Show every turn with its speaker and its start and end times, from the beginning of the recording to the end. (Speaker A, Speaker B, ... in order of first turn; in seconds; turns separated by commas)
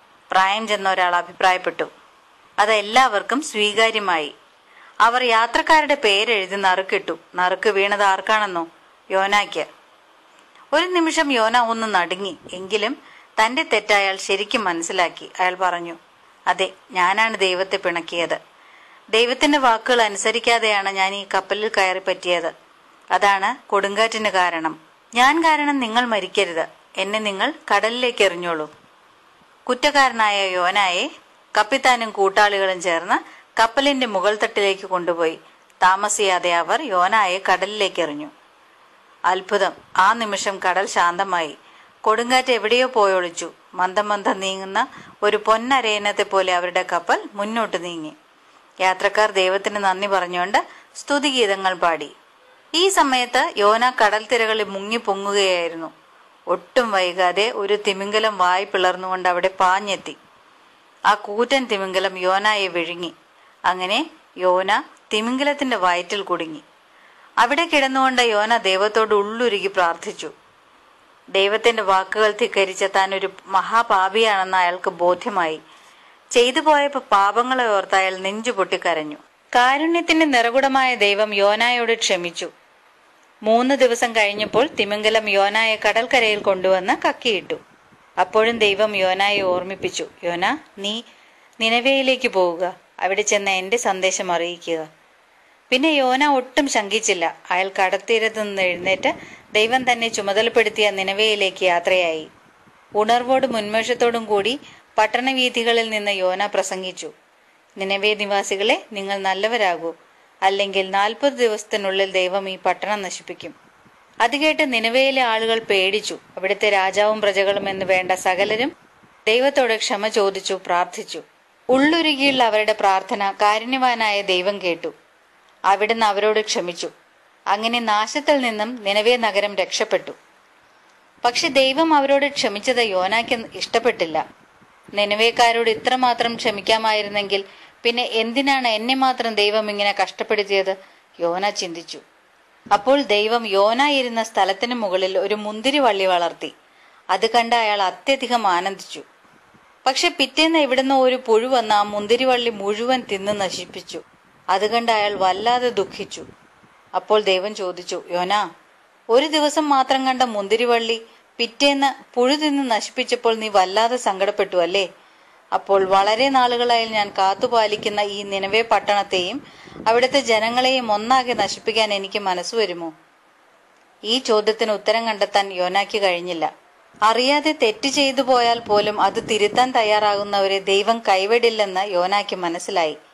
Speaker A: 0.3-1.9, Speaker A: 2.6-4.3, Speaker A: 5.0-9.7, Speaker A: 10.7-16.0, Speaker A: 16.5-18.4, Speaker A: 19.1-22.5, Speaker A: 23.1-28.7, Speaker A: 29.7-38.3, Speaker A: 39.3-48.2, Speaker A: 48.8-52.1, Speaker A: 52.8-55.9, Speaker A: 56.5-60.2, Speaker A: 61.1-63.1, Speaker A: 63.7-66.6, Speaker A: 67.4-70.3, Speaker A: 71.3-75.6, Speaker A: 76.3-82.5, Speaker A: 83.5-87.6, Speaker A: 88.2-91.0, Speaker A: 91.6-94.9, Speaker A: 95.7-102.3, Speaker A: 103.0-107.1, Speaker A: 107.8-109.9, Speaker A: 110.5-113.5, Speaker A: 114.2-118.7, Speaker A: 119.3-124.9, Speaker A: 125.7-126.9, Speaker A: 127.5-130.2, Speaker A: 131.2-134.2, Speaker A: 134.9-142.0, Speaker A: 142.7-146.5, Speaker A: 147.1-149.1, Speaker A: 149.8-154.0, Speaker A: 154.5-156.3, Speaker A: 157.0-158.4, Speaker A: 159.1-164.9, Speaker A: 165.6-172.9, Speaker A: 174.1-176.5, Speaker A: 177.1-183.0